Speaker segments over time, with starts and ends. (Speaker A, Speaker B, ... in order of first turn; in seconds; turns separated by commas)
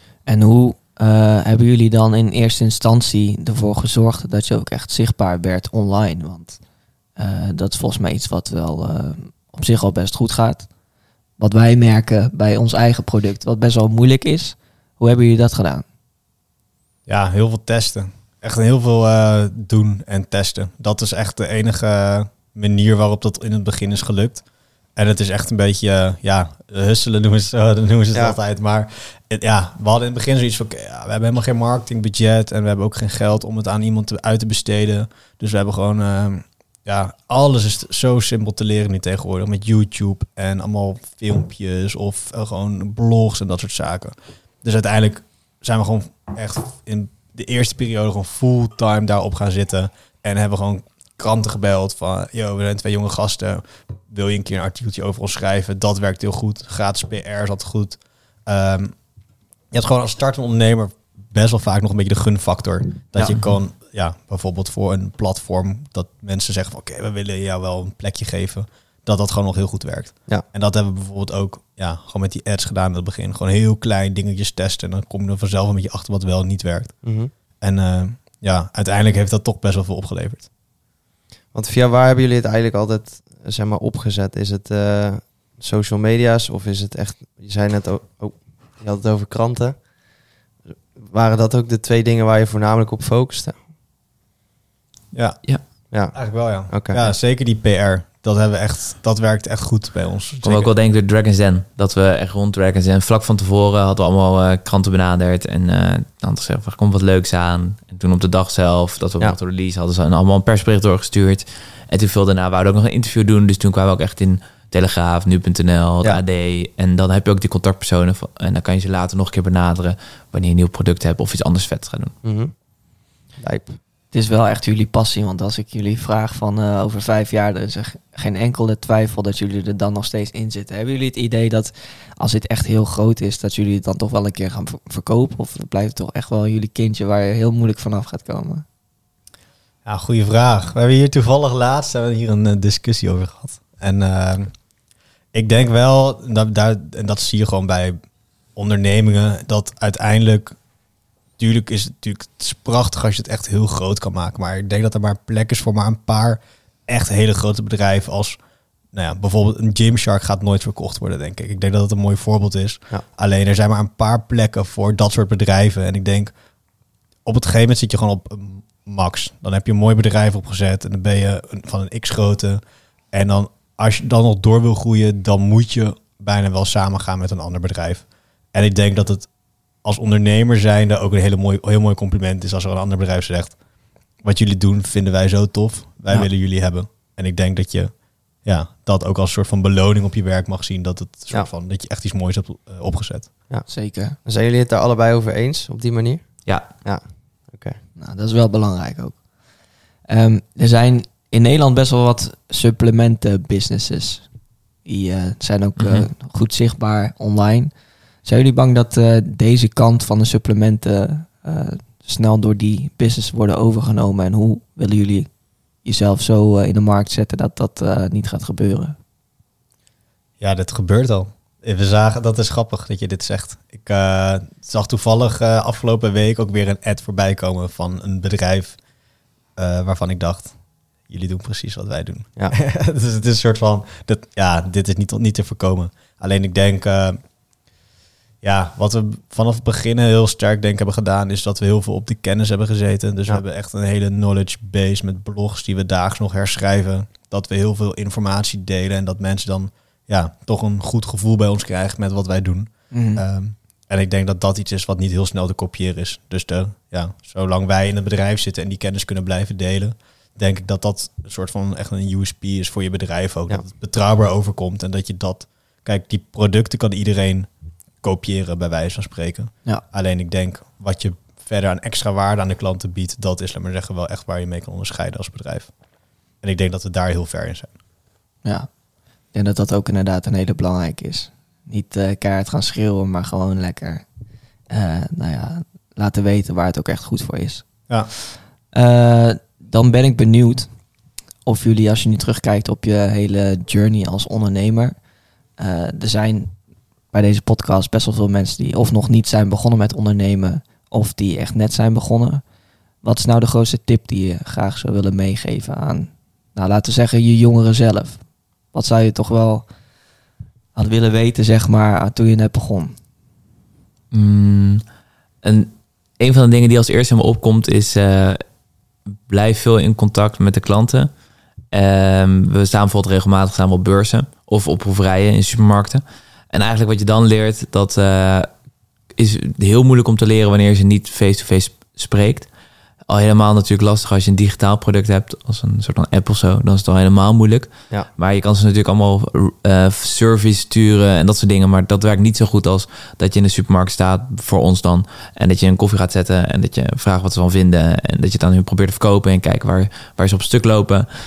Speaker A: 0.2-6.6, Speaker A: 7.2-10.7, Speaker A: 11.4-15.8, Speaker B: 17.1-24.4, Speaker B: 24.9-59.0, Speaker B: 59.7-77.0, Speaker C: 77.0-77.3, Speaker B: 77.6-80.5, Speaker C: 81.5-89.9, Speaker C: 90.7-93.6, Speaker B: 95.1-100.7, Speaker C: 95.9-97.1, Speaker D: 100.4-122.1, Speaker C: 122.2-122.5, Speaker C: 123.3-123.8, Speaker A: 124.1-138.6, Speaker B: 139.8-144.5, Speaker B: 145.3-148.0, Speaker B: 148.5-150.6, Speaker B: 151.4-158.4, Speaker B: 158.9-166.3, Speaker B: 167.2-172.6, Speaker B: 173.1-179.3, Speaker B: 179.8-183.6, Speaker B: 184.2-193.3, Speaker A: 193.7-194.2, Speaker C: 194.2-197.8, Speaker A: 198.0-199.2, Speaker A: 200.1-204.3, Speaker A: 204.8-207.7, Speaker D: 205.8-206.1, Speaker A: 208.2-215.3, Speaker A: 215.8-218.9, Speaker B: 220.4-228.8, Speaker B: 229.6-237.2, Speaker B: 238.4-275.7, Speaker A: 252.9-253.2, Speaker B: 276.4-277.7, Speaker A: 279.3-284.0, Speaker A: 284.7-288.2, Speaker A: 288.7-290.8, Speaker A: 291.4-294.9, Speaker A: 295.6-296.6, Speaker A: 297.1-302.4, Speaker A: 303.0-309.7, Speaker A: 310.7-312.9, Speaker D: 314.1-314.8, Speaker D: 315.4-318.4, Speaker D: 319.3-321.1, Speaker D: 321.7-328.5, Speaker D: 329.1-332.5, Speaker D: 333.1-351.1